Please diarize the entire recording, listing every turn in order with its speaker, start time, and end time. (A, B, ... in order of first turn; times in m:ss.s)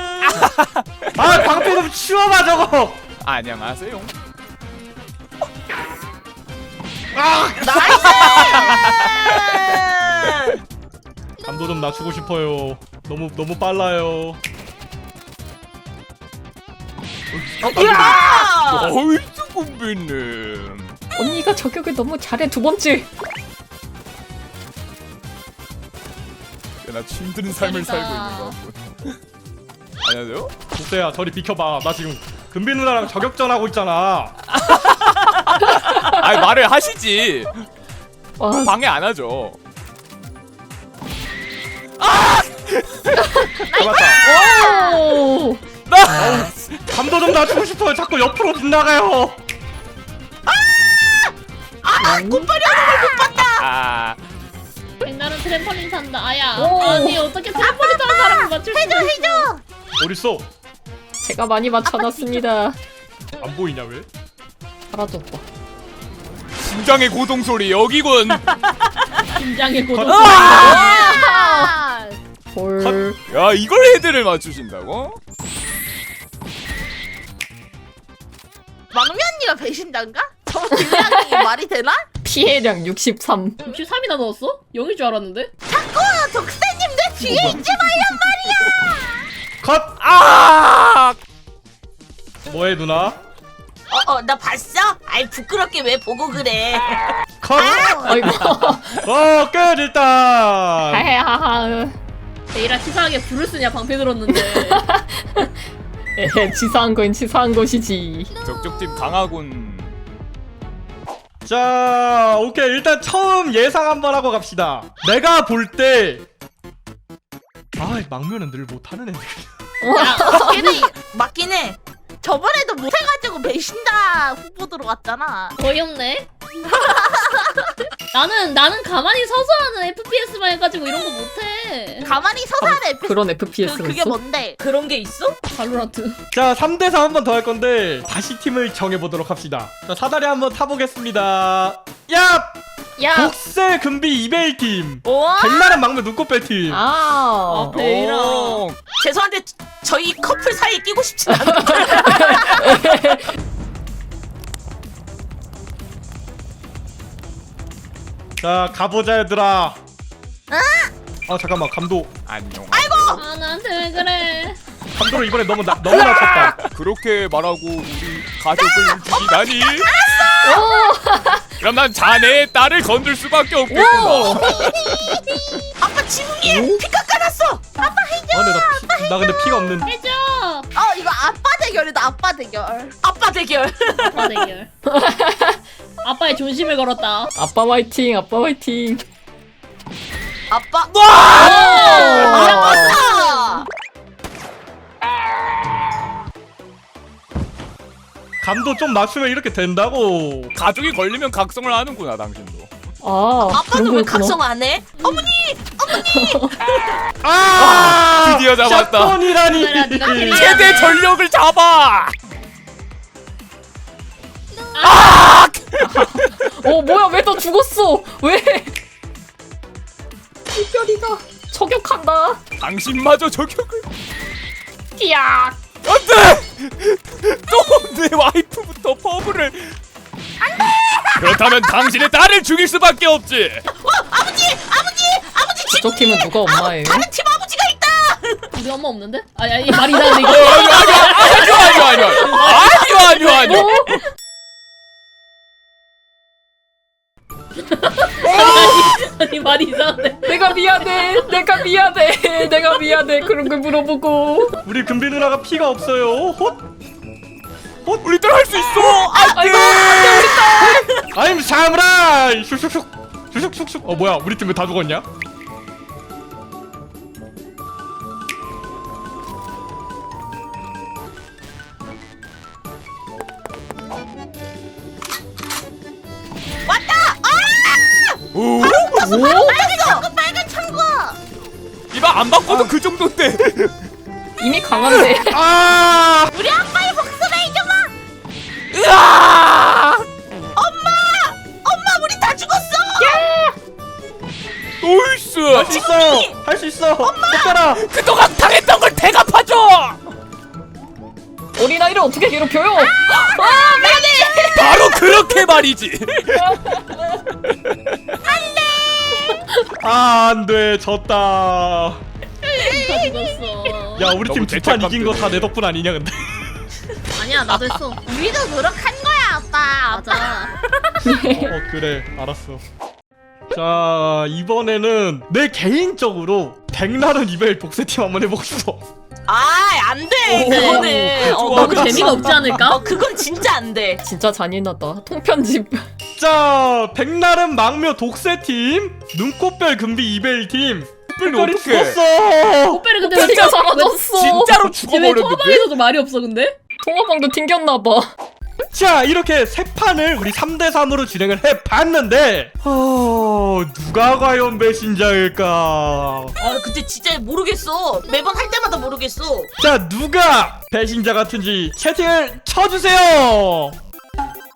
0:00.2-0:01.4 A
0:01.1-0:03.0 B
0:03.2-0:04.1 A
0:07.1-0:08.2 B
0:07.6-0:10.6 C
0:07.8-0:09.8 A
0:11.4-0:14.4 B
0:17.3-0:20.9 A
0:17.6-0:19.0 C
0:17.8-0:18.2 B
0:21.2-0:23.1 D
0:26.8-0:29.2 A
0:27.5-0:28.6 E
0:30.0-0:30.5 A
0:30.7-0:34.4 B
0:34.5-0:37.5 A
0:38.4-0:38.7 D
0:38.6-0:39.6 A
0:42.0-0:43.3 A
0:43.7-0:44.9 F
0:43.7-0:44.2 B
0:44.2-0:45.6 D
0:44.3-0:45.4 E
0:45.9-0:46.5 A
0:46.2-0:46.5 D
0:46.2-0:49.4 B
0:50.5-0:51.3 C
0:51.8-0:53.7 C
0:52.0-0:52.5 D
0:53.6-0:54.2 A
0:55.0-0:59.5 E
0:56.6-0:57.2 D
0:57.6-0:59.6 F
1:00.0-1:00.5 B
1:01.2-1:02.8 D
1:03.4-1:04.1 B
1:04.9-1:05.4 D
1:06.6-1:08.4 A
1:09.4-1:10.8 E
1:09.9-1:10.8 B
1:10.2-1:10.8 A
1:10.4-1:12.2 F
1:10.7-1:11.7 D
1:12.5-1:13.2 D
1:13.3-1:15.2 A
1:18.9-1:22.0 F
1:20.9-1:21.4 D
1:22.2-1:23.6 D
1:23.6-1:25.5 E
1:25.7-1:29.1 F
1:27.3-1:27.6 B
1:27.3-1:28.3 A
1:29.6-1:30.0 B
1:30.0-1:31.2 A
1:32.5-1:33.2 B
1:33.9-1:37.2 C
1:37.4-1:38.4 B
1:37.6-1:38.1 F
1:38.0-1:38.8 D
1:38.3-1:38.6 A
1:39.0-1:41.1 B
1:40.9-1:42.0 D
1:42.5-1:44.8 E
1:44.3-1:45.5 D
1:46.2-1:48.3 D
1:48.4-1:50.0 A
1:51.4-1:56.2 B
1:57.8-1:59.5 B
1:59.8-2:00.8 D
2:00.0-2:00.9 E
2:00.0-2:01.0 F
2:00.2-2:01.8 C
2:02.2-2:05.6 F
2:05.6-2:06.3 E
2:06.6-2:07.7 F
2:08.1-2:12.2 E
2:12.0-2:14.6 F
2:12.6-2:14.2 D
2:14.6-2:15.4 C
2:15.5-2:16.2 E
2:16.3-2:22.6 B
2:23.0-2:23.3 D
2:23.1-2:26.8 B
2:25.0-2:25.8 C
2:26.7-2:27.8 D
2:27.5-2:28.7 E
2:27.7-2:28.8 A
2:29.0-2:32.5 C
2:31.5-2:33.2 D
2:38.4-2:39.8 B
2:40.5-2:40.9 C
2:41.3-2:42.1 B
2:42.3-2:43.2 A
2:42.7-2:43.2 F
2:43.1-2:44.6 E
2:44.9-2:46.6 B
2:45.9-2:49.9 A
2:49.9-2:50.6 F
2:50.1-2:50.7 C
2:50.4-2:51.5 D
2:51.6-2:55.2 A
2:53.7-2:54.7 D
2:54.3-2:54.9 C
2:55.8-2:57.7 C
2:56.4-2:56.8 D
2:57.8-2:59.1 F
2:58.3-2:59.9 B
2:59.9-3:00.7 E
3:00.8-3:03.0 F
3:03.0-3:04.5 C
3:04.1-3:04.7 E
3:04.9-3:05.6 D
3:06.0-3:07.3 E
3:07.4-3:09.0 D
3:10.5-3:10.9 C
3:10.9-3:12.4 A
3:11.4-3:13.4 E
3:11.4-3:13.0 D
3:11.4-3:13.7 C
3:18.4-3:20.5 B
3:20.5-3:22.7 A
3:23.0-3:24.4 D
3:23.5-3:26.7 C
3:25.0-3:25.3 E
3:26.0-3:26.5 D
3:27.2-3:30.7 B
3:27.6-3:29.3 A
3:29.4-3:31.0 E
3:30.2-3:32.1 A
3:34.7-3:35.3 E
3:34.8-3:36.4 A
3:35.8-3:38.8 D
3:40.5-3:42.4 D
3:42.6-3:43.9 A
3:45.0-3:45.6 D
3:45.8-3:49.8 A
3:50.6-3:51.2 C
3:51.2-3:53.7 A
3:53.7-3:58.5 C
3:55.7-3:57.1 D
3:58.5-4:02.7 E
3:59.9-4:00.3 C
4:00.1-4:03.7 A
4:00.9-4:04.0 C
4:03.4-4:04.0 D
4:07.6-4:11.1 E
4:08.3-4:08.9 D
4:10.2-4:14.6 D
4:14.6-4:16.6 B
4:18.0-4:20.5 A
4:18.8-4:19.4 C
4:19.2-4:20.9 D
4:19.9-4:21.0 C
4:21.1-4:25.1 B
4:36.7-4:38.2 C
4:38.3-4:39.2 A
4:38.6-4:41.2 F
4:39.0-4:39.5 D
4:39.2-4:40.1 C
4:41.9-4:43.9 A
4:44.4-4:45.4 D
4:45.2-4:46.3 B
4:46.3-4:47.9 F
4:48.7-4:50.1 A
4:50.6-4:53.2 C
4:53.0-4:53.6 D
4:54.8-4:55.8 A
4:55.5-4:57.9 B
4:55.7-4:56.4 C
4:57.0-4:57.6 C
4:57.8-5:00.0 A
5:01.6-5:05.2 D
5:02.8-5:04.7 C
5:04.6-5:06.6 A
5:07.5-5:07.8 A
5:08.2-5:09.3 F
5:09.8-5:12.0 B
5:12.4-5:13.4 F
5:12.7-5:14.1 E
5:14.0-5:16.6 B
5:14.1-5:15.5 A
5:17.1-5:18.0 E
5:18.0-5:20.6 F
5:19.9-5:20.6 E
5:21.0-5:21.5 D
5:21.3-5:22.6 B
5:23.5-5:28.8 B
5:29.3-5:34.0 C
5:30.2-5:32.6 A
5:30.5-5:32.9 E
5:31.0-5:32.0 D
5:31.4-5:32.1 B
5:34.0-5:35.8 D
5:36.2-5:42.8 B
5:41.2-5:42.0 A
5:42.7-5:46.6 E
5:43.1-5:44.7 D
5:43.1-5:45.7 A
5:46.8-5:48.1 D
5:48.7-5:56.3 B
5:56.4-5:59.5 C
5:59.6-6:03.8 B